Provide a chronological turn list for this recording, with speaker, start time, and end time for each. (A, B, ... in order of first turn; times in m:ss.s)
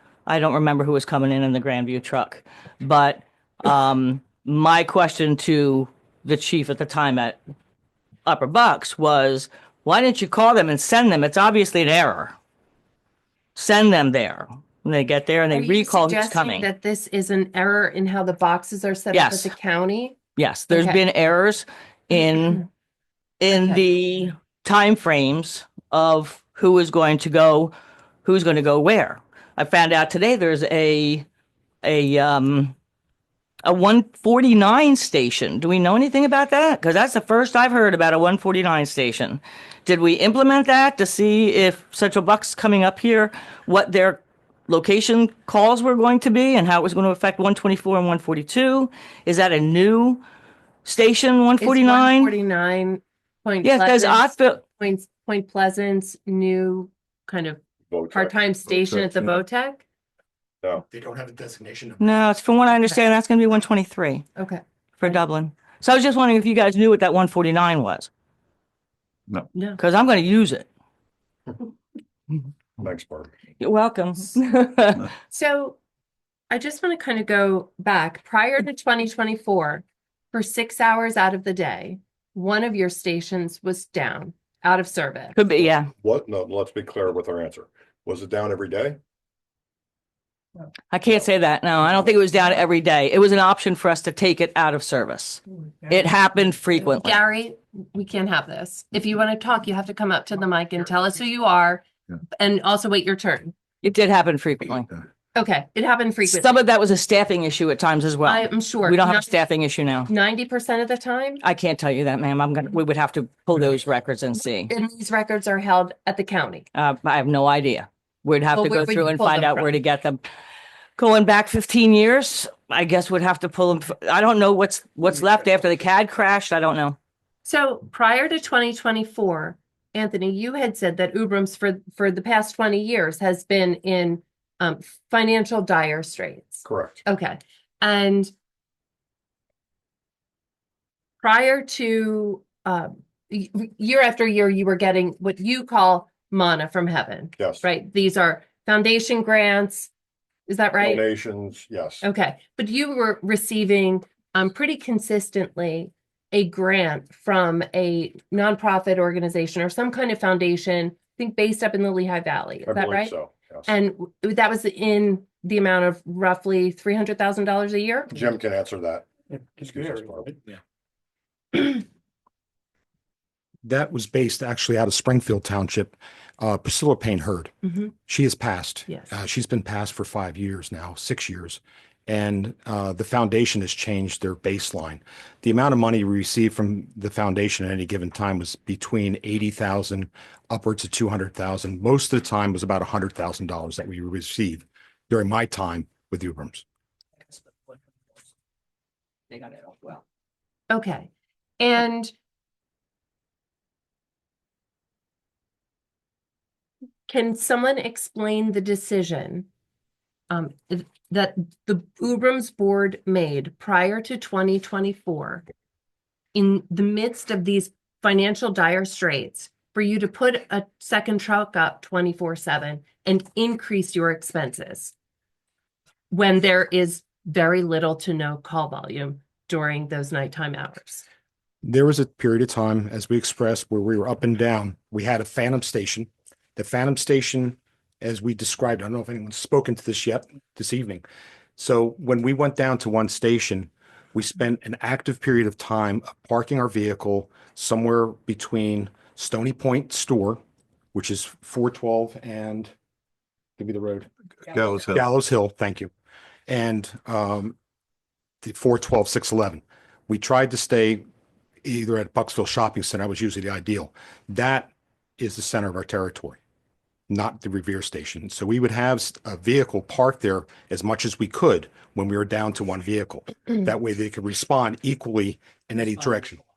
0:00.3-0:07.4 A
0:08.3-0:12.4 A
0:13.6-0:16.7 A
0:15.5-0:20.2 B
0:19.1-0:19.5 A
0:20.4-0:22.6 A
0:20.7-0:21.0 B
0:22.3-0:22.6 B
0:23.4-0:27.7 A
0:23.5-0:23.8 B
0:28.2-0:31.2 A
0:31.8-0:32.8 A
0:33.6-0:50.2 A
0:50.8-0:52.3 A
0:51.6-0:57.6 B
0:53.6-0:54.6 A
0:57.9-0:58.3 C
0:58.1-0:59.8 B
1:00.9-1:02.1 D
1:02.0-1:04.3 A
1:04.4-1:05.2 B
1:05.0-1:08.1 A
1:09.5-1:09.8 B
1:09.8-1:10.7 A
1:12.8-1:13.3 C
1:13.6-1:15.1 A
1:15.3-1:15.8 B
1:16.5-1:25.4 B
1:25.3-1:25.9 A
1:25.9-1:29.0 C
1:30.9-1:37.2 A
1:36.9-1:41.8 B
1:42.4-1:43.5 B
1:43.8-1:44.9 A
1:45.4-1:46.6 B
1:46.2-1:50.1 A
1:48.2-1:49.4 B
1:50.1-1:51.4 B
1:51.4-1:54.7 A
1:54.7-1:56.7 B
1:56.7-2:00.2 A
1:58.6-1:59.8 B
2:01.0-2:07.0 A
2:07.4-2:18.3 B
2:16.7-2:17.0 C
2:21.2-2:29.9 B
2:27.4-2:27.6 C
2:30.5-2:31.0 B
2:30.8-2:32.0 C
2:32.0-2:43.1 B
2:42.7-2:43.7 C
2:43.7-2:48.2 B
2:48.1-2:50.4 C
2:53.6-2:57.5 D
2:58.1-3:16.6 D
3:19.3-3:20.0 A
3:20.7-3:22.1 B
3:27.1-3:29.5 B
3:30.3-3:35.4 B
3:36.3-3:44.9 B
3:46.1-3:51.0 B
3:51.6-4:01.0 D
4:01.6-4:10.4 D
4:10.9-4:12.7 D
4:13.6-4:14.1 D
4:14.5-4:15.0 C
4:14.9-4:15.9 D
4:16.5-4:17.6 D
4:18.4-4:21.0 D
4:21.6-4:26.4 D
4:27.1-4:36.4 D